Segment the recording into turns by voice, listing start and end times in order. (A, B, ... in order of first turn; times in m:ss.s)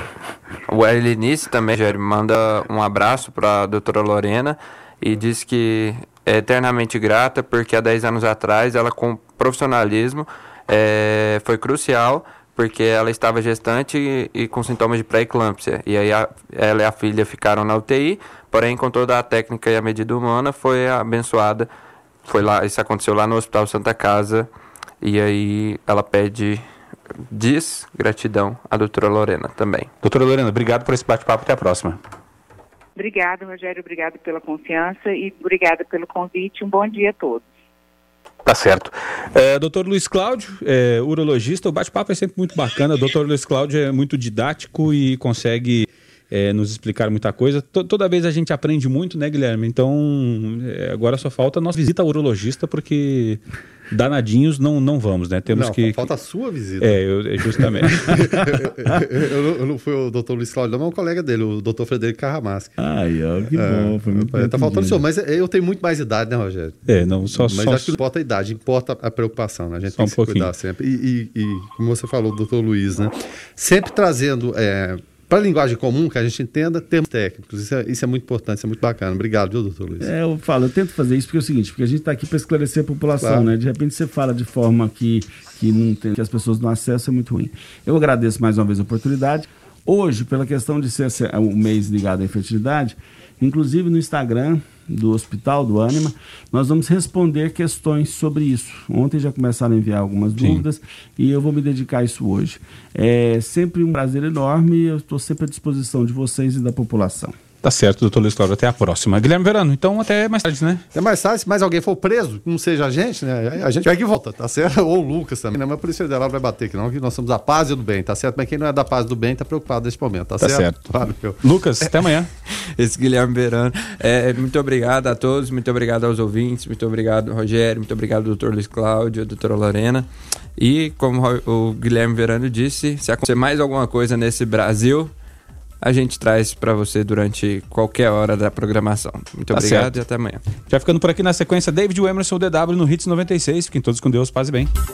0:00.7-0:21.7 A
0:22.2-0:24.5 A
0:25.0-0:26.7 A
0:27.3-0:29.9 A
0:30.0-0:32.0 B
0:33.0-0:37.4 C
0:38.4-0:56.1 B
0:55.5-0:57.0 D
0:56.8-0:58.5 B
0:57.5-1:02.8 D
1:02.8-1:05.0 E
1:03.5-1:20.1 D
1:06.9-1:08.0 B
1:10.0-1:10.5 B
1:20.0-1:47.4 E
1:23.2-1:23.5 D
1:47.6-1:50.8 B
1:50.9-2:01.4 D
2:00.4-2:02.3 B
2:02.0-2:15.1 A
2:15.8-2:20.4 A
2:19.5-2:20.0 B
2:20.7-2:24.7 B